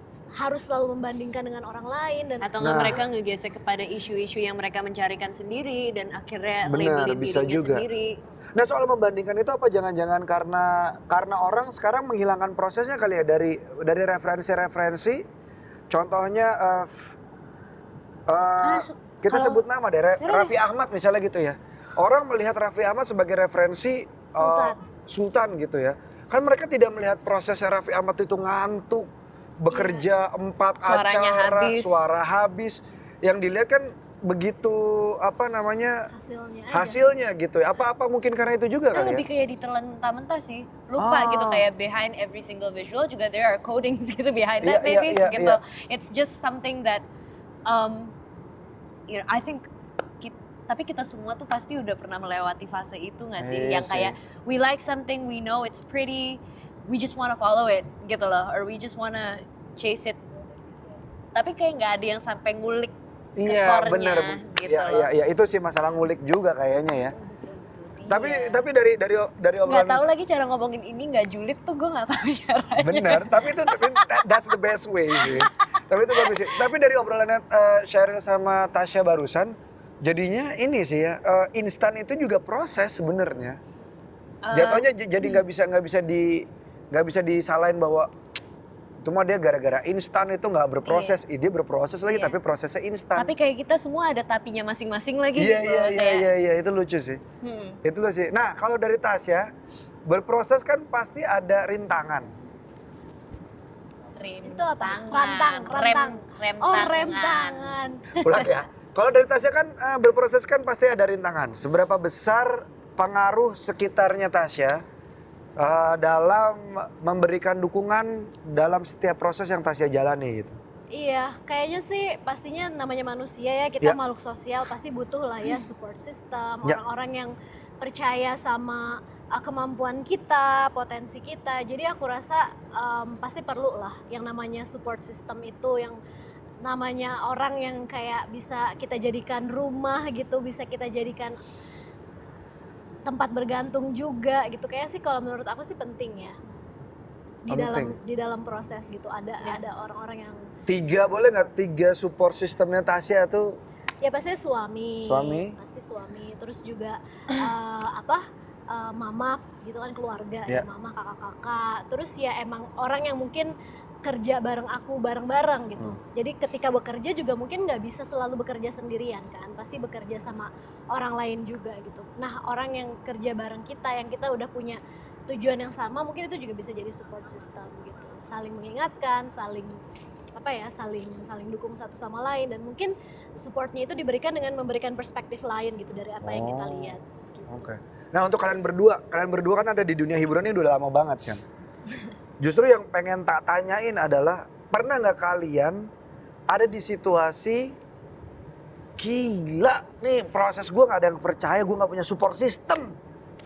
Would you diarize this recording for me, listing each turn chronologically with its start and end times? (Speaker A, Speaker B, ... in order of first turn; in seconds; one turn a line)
Speaker A: 0.4-2.9
Speaker B: 2.4-8.2
Speaker C: 2.6-3.0
Speaker C: 6.7-7.8
Speaker C: 8.6-15.2
Speaker C: 15.9-17.1
Speaker C: 18.3-29.1
Speaker B: 18.6-19.6
Speaker B: 20.2-20.5
Speaker A: 24.4-24.8
Speaker C: 29.6-36.1
Speaker A: 29.7-30.1
Speaker B: 30.9-32.1
Speaker A: 36.1-37.0
Speaker C: 36.7-39.3
Speaker B: 38.9-47.0
Speaker C: 41.0-41.7
Speaker C: 44.6-45.6
Speaker B: 47.7-48.1
Speaker B: 49.1-49.7
Speaker B: 50.2-60.2
Speaker C: 53.4-54.1
Speaker B: 61.4-62.9
Speaker C: 63.4-67.1
Speaker B: 63.5-65.1
Speaker B: 67.2-68.6
Speaker C: 68.1-70.1
Speaker B: 69.7-74.4
Speaker C: 72.8-83.6
Speaker B: 75.2-75.5
Speaker B: 76.1-76.7
Speaker B: 84.4-85.4
Speaker C: 84.5-88.1
Speaker C: 89.0-93.3
Speaker B: 90.9-91.2
Speaker B: 92.1-92.4
Speaker B: 93.2-96.3
Speaker C: 95.4-97.2
Speaker B: 97.4-97.8
Speaker C: 97.8-99.5
Speaker C: 100.1-102.3
Speaker B: 104.2-108.5
Speaker A: 104.4-108.0
Speaker C: 108.2-114.8
Speaker C: 115.6-120.6
Speaker A: 120.9-136.0
Speaker A: 136.6-141.4
Speaker A: 143.1-146.4
Speaker A: 147.5-150.5
Speaker C: 147.5-148.0
Speaker C: 150.7-153.6
Speaker A: 151.2-151.5
Speaker A: 154.0-163.5
Speaker C: 155.0-155.6
Speaker A: 164.0-179.8
Speaker A: 180.3-187.7
Speaker C: 186.2-187.0
Speaker C: 187.5-191.4
Speaker C: 192.4-195.9
Speaker C: 196.5-197.8
Speaker C: 199.0-203.0